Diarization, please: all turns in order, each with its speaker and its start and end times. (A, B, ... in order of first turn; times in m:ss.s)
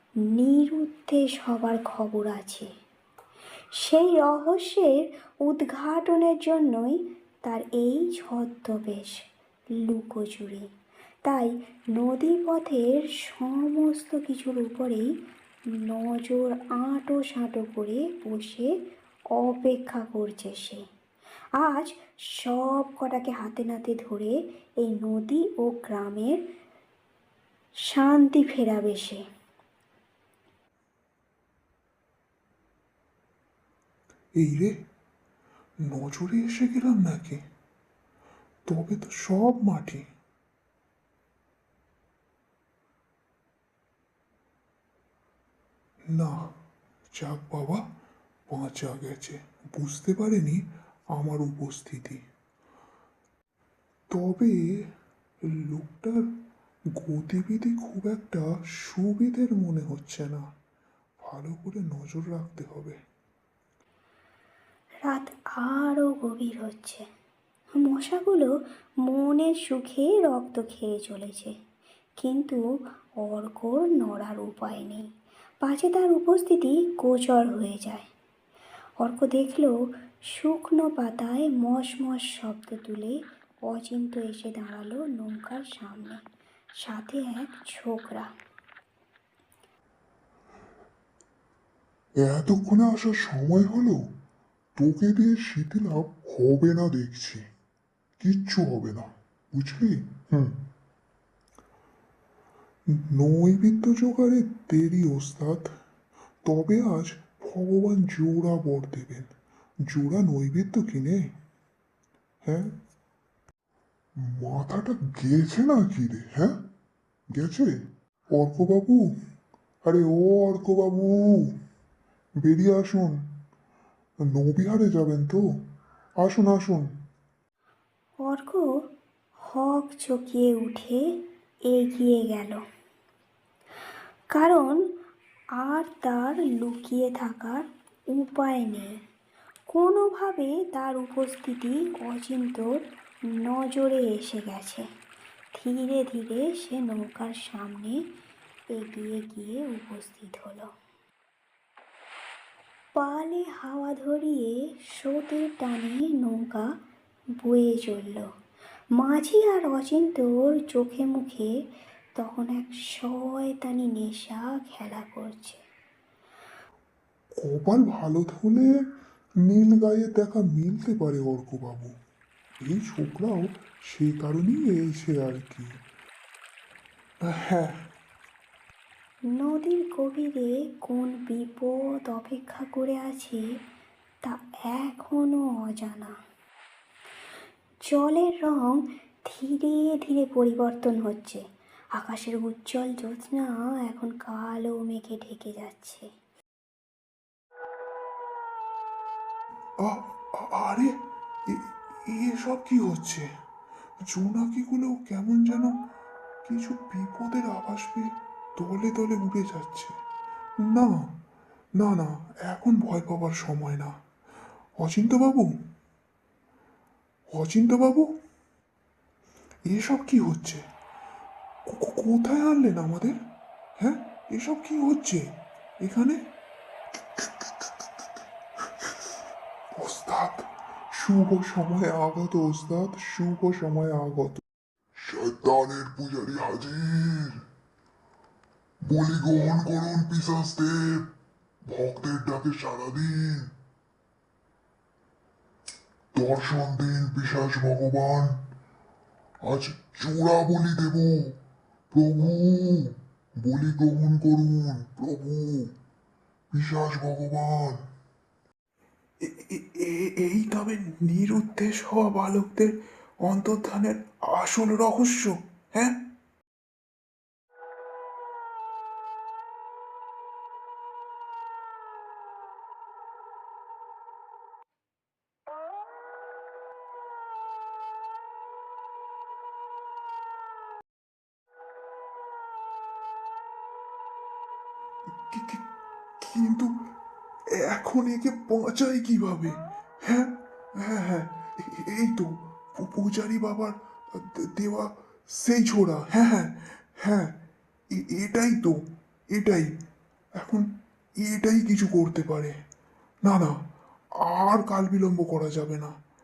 0:00.3-0:02.7 A
0:03.8-0:09.2 A
0:09.8-0:10.7 A
0:11.2-0:15.1 A
0:15.8-0:18.7 A
0:19.4-0:20.8 A
0:21.6-0:26.4 A
0:27.9-0:29.2 A
0:34.4-0:34.8 B
0:35.8-0:37.4 B
0:38.7-0:40.1 B
0:46.1-0:46.5 B
0:47.1-0:47.9 B
0:48.5-0:50.6 B
0:51.1-0:52.2 B
0:54.1-0:54.6 B
0:55.6-0:56.3 B
0:57.0-1:00.5 B
1:01.2-1:03.0 B
1:05.1-1:07.0 A
1:07.8-1:08.5 A
1:09.0-1:11.5 A
1:12.2-1:12.6 A
1:13.2-1:15.1 A
1:15.6-1:18.1 A
1:19.0-1:19.8 A
1:20.3-1:26.2 A
1:26.8-1:28.3 A
1:32.2-1:34.0 C
1:34.8-1:37.4 C
1:38.2-1:40.6 C
1:43.2-1:45.6 B
1:46.6-1:49.3 B
1:46.7-1:47.0 C
1:49.9-1:51.0 B
1:54.2-1:56.6 C
1:57.3-1:57.8 C
1:58.3-1:59.2 C
1:59.8-2:01.6 C
2:02.4-2:03.2 C
2:04.3-2:05.4 C
2:06.2-2:06.9 C
2:08.2-2:08.7 A
2:09.4-2:12.6 A
2:14.3-2:14.8 A
2:15.6-2:19.0 A
2:19.7-2:22.8 A
2:23.4-2:24.9 A
2:25.6-2:28.0 A
2:28.7-2:30.7 A
2:33.0-2:36.7 A
2:37.4-2:38.3 A
2:39.0-2:41.5 A
2:42.2-2:45.6 A
2:47.5-2:48.7 C
2:49.6-2:51.9 C
2:52.7-2:53.2 B
2:53.9-2:55.6 C
2:57.3-2:57.7 B
2:59.3-3:03.4 A
3:04.2-3:06.1 A
3:07.9-3:11.4 A
3:12.0-3:16.1 A
3:19.8-3:20.9 B
3:21.5-3:23.3 B
3:24.0-3:25.8 B
3:26.5-3:30.0 B
3:30.6-3:31.1 B
3:31.8-3:34.0 B
3:34.8-3:35.6 B
3:37.3-3:38.2 B
3:39.7-3:40.6 B
3:41.7-3:43.2 B
3:43.8-3:46.2 B
3:49.8-3:50.3 B
3:51.2-3:54.4 B
3:51.6-3:51.9 C
3:55.0-3:57.4 C
3:58.8-4:01.1 C
4:01.6-4:03.5 C
4:06.2-4:08.4 C
4:09.4-4:11.4 C
4:11.9-4:15.7 C
4:16.5-4:17.8 C
4:19.2-4:26.0 B
4:45.3-4:45.6 B
4:46.2-4:46.7 B
4:47.5-4:57.3 B
4:57.9-4:58.8 B
4:59.3-4:59.7 B
5:00.4-5:00.7 B
5:01.2-5:02.6 B
5:03.2-5:03.6 B
5:04.2-5:06.0 B